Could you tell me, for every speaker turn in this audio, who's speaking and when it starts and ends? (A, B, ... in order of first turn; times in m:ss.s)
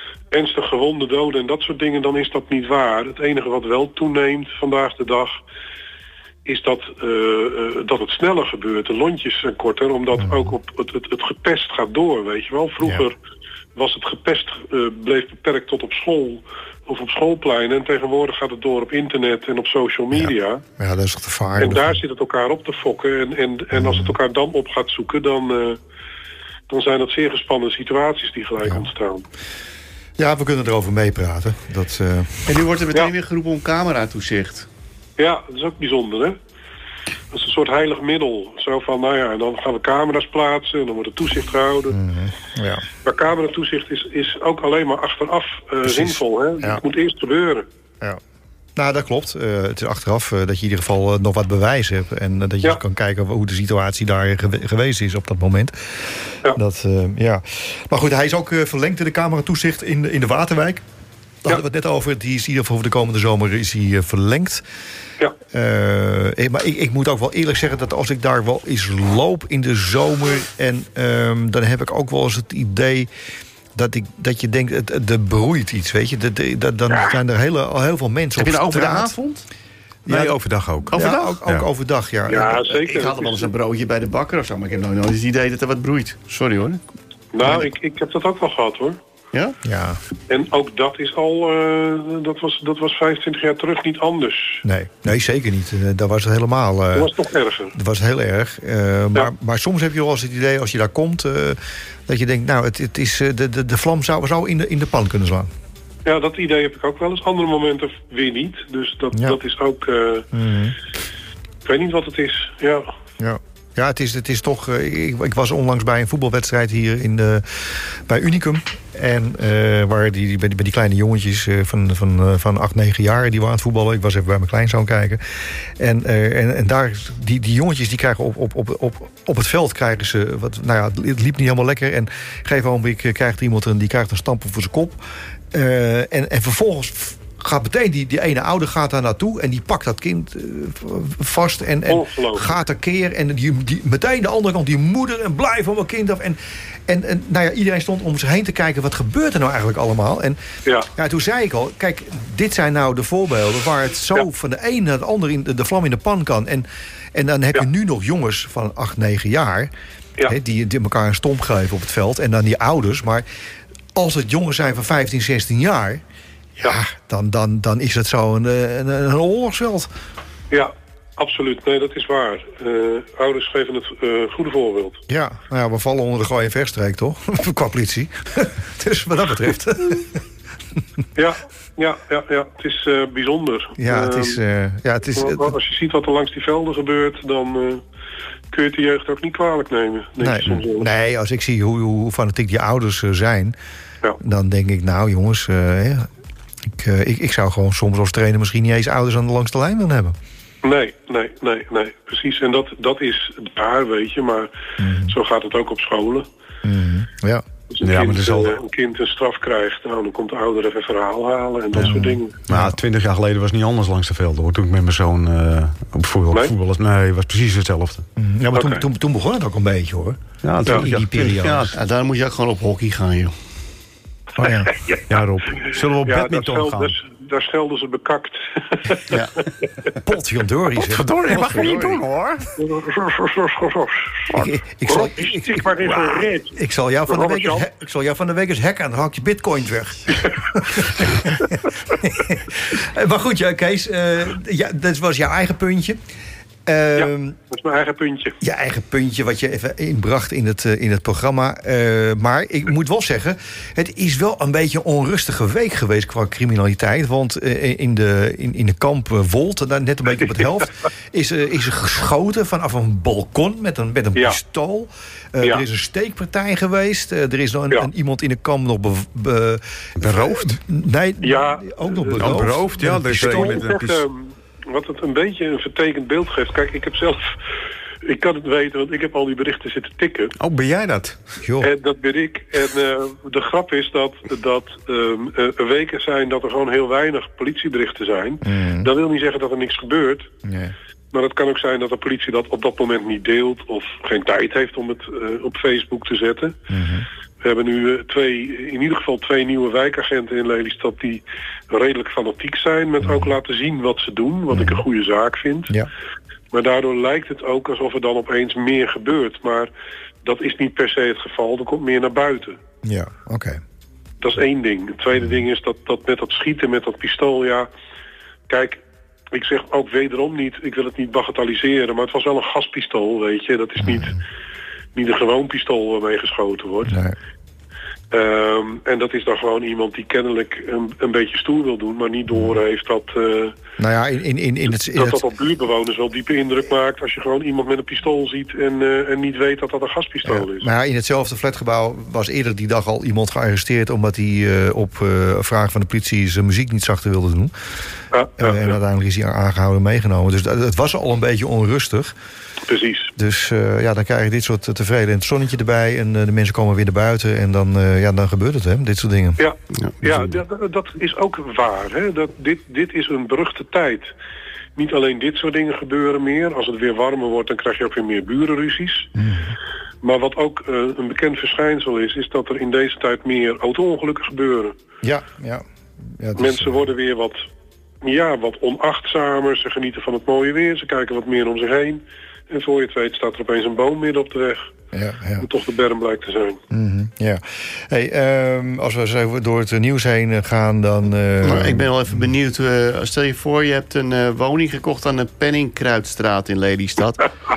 0:00.3-0:05.3 A
0:06.4-0:13.1 A
0:10.2-0:10.5 B
0:13.8-0:20.6 A
0:20.1-0:22.0 B
0:21.6-0:25.8 A
0:23.7-0:24.2 B
0:26.7-0:29.2 A
0:30.2-0:32.5 B
0:32.4-0:34.7 C
0:35.2-0:36.4 A
0:37.3-0:42.0 A
0:41.9-0:42.8 B
0:43.0-0:47.6 A
0:45.8-0:46.8 B
0:48.8-1:00.8 B
1:01.4-1:04.6 B
1:05.5-1:13.1 B
1:13.7-1:19.2 B
1:18.4-1:19.4 C
1:20.0-1:22.7 B
1:20.1-1:20.9 D
1:20.9-1:21.4 C
1:22.3-1:23.5 A
1:22.8-1:26.8 C
1:27.3-1:29.0 A
1:27.4-1:27.7 B
1:29.6-1:30.0 B
1:30.3-1:34.6 A
1:34.6-1:37.1 B
1:36.9-1:37.7 A
1:37.7-1:45.5 B
1:46.0-1:50.2 A
1:49.1-1:49.4 B
1:50.3-1:50.8 B
1:51.6-1:52.9 A
1:53.2-2:05.2 B
2:05.8-2:15.0 B
2:15.5-2:30.4 B
2:21.9-2:22.5 A
2:30.9-2:39.7 B
2:40.2-2:43.2 B
2:43.9-2:46.0 B
2:46.6-2:49.9 B
2:50.5-2:55.0 A
2:55.1-3:00.2 B
3:01.2-3:04.4 A
3:03.8-3:05.5 B
3:05.1-3:07.8 A
3:08.5-3:10.9 A
3:10.2-3:13.5 B
3:14.2-3:16.1 B
3:16.7-3:20.2 B
3:20.6-3:24.5 A
3:24.8-3:25.1 B
3:25.0-3:26.3 A
3:26.6-3:27.4 B
3:27.7-3:32.4 A
3:27.8-3:28.6 D
3:31.8-3:32.8 B
3:32.5-3:38.0 D
3:38.2-3:41.8 B
3:38.5-3:38.8 A
3:40.4-3:41.7 D
3:41.5-3:43.3 C
3:44.4-3:44.7 B
3:44.4-3:45.0 A
3:45.1-3:46.9 D
3:46.0-3:49.6 A
3:49.1-3:49.4 C
3:50.0-3:52.0 B
3:50.9-3:52.5 C
3:51.3-3:51.8 D
3:52.6-3:54.2 A
3:54.3-4:06.0 B
3:54.9-3:56.6 A
3:57.1-3:57.6 A
4:06.6-4:07.4 B
4:07.0-4:08.4 A
4:08.4-4:33.6 B
4:24.1-4:24.4 A
4:30.0-4:30.6 D
4:31.2-4:32.5 A
4:32.2-4:34.0 D
4:33.1-4:37.3 A
4:38.0-4:40.3 A
4:40.4-4:41.2 D
4:41.4-4:41.7 B
4:41.6-4:50.3 A
4:48.4-4:48.9 B
4:50.4-4:50.7 B
4:51.1-4:56.5 A
4:56.7-4:57.0 B
4:57.4-5:05.7 A
5:03.0-5:03.3 B
5:04.5-5:04.8 B
5:06.5-5:09.7 A
5:10.2-5:12.6 A
5:12.8-5:13.6 B
5:14.2-5:17.7 A
5:15.1-5:15.4 B
5:18.5-5:24.2 A
5:23.8-5:24.2 B
5:24.9-5:26.9 A
5:26.8-5:27.1 B
5:28.1-5:33.5 A
5:32.3-5:32.6 B
5:33.8-5:35.2 B
5:34.7-5:40.7 A
5:40.2-5:47.5 B
5:48.1-5:48.8 A
5:48.4-5:52.1 B
5:52.7-5:53.1 A
5:53.2-5:59.4 B
5:59.4-6:04.1 A
6:04.8-6:09.1 A
6:09.2-6:09.5 B
6:10.0-6:14.7 A
6:15.0-6:16.9 B
6:16.4-6:17.4 A
6:18.0-6:24.7 A
6:24.9-6:25.4 B
6:25.4-6:26.6 A
6:26.7-6:32.3 B
6:31.4-6:37.3 C